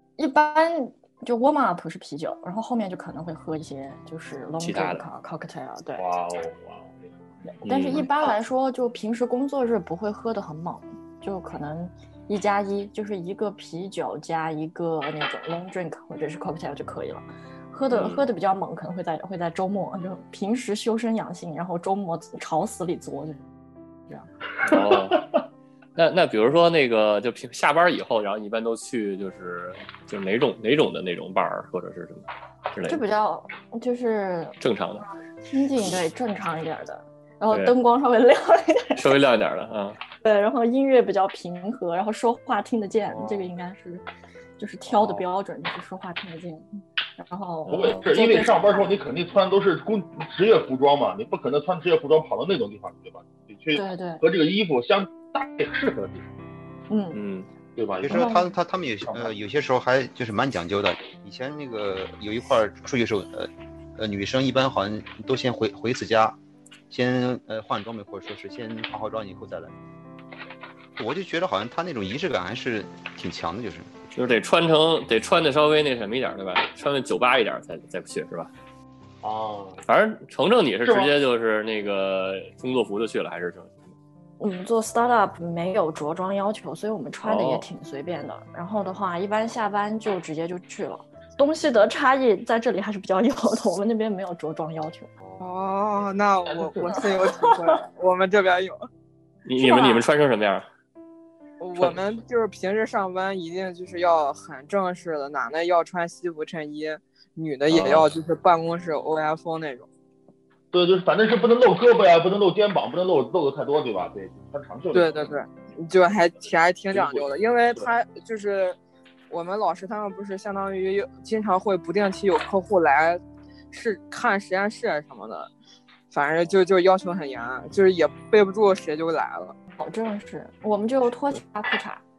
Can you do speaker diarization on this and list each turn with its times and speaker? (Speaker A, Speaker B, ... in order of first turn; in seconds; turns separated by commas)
Speaker A: 0.2-6.0, Speaker B: 4.6-5.0, Speaker C: 6.0-7.0, Speaker A: 7.6-23.5, Speaker B: 7.6-8.1, Speaker B: 17.9-18.3, Speaker B: 24.6-25.3, Speaker C: 24.7-25.1, Speaker B: 25.9-33.0, Speaker A: 32.9-34.5, Speaker B: 34.6-35.0, Speaker A: 35.5-39.1, Speaker B: 37.5-37.8, Speaker B: 38.9-40.0, Speaker A: 40.2-44.0, Speaker C: 43.1-43.5, Speaker A: 44.6-48.9, Speaker B: 47.7-48.0, Speaker C: 47.7-56.3, Speaker A: 53.7-54.2, Speaker A: 56.9-57.2, Speaker B: 57.1-57.5, Speaker C: 57.8-58.3, Speaker D: 58.0-66.4, Speaker A: 58.1-58.5, Speaker C: 59.0-59.3, Speaker D: 66.9-69.7, Speaker D: 71.0-73.9, Speaker B: 74.2-78.5, Speaker C: 79.2-79.8, Speaker B: 79.9-84.0, Speaker C: 80.8-81.1, Speaker A: 84.4-95.1, Speaker B: 87.2-87.7, Speaker C: 95.2-95.5, Speaker E: 95.4-98.8, Speaker C: 96.4-97.3, Speaker B: 99.5-100.7, Speaker A: 99.6-100.0, Speaker E: 101.6-109.9, Speaker B: 107.7-108.1, Speaker C: 110.7-115.4, Speaker E: 114.9-118.8, Speaker C: 116.9-117.9, Speaker E: 119.3-123.2, Speaker E: 123.7-125.5, Speaker E: 126.1-129.5, Speaker A: 129.8-132.0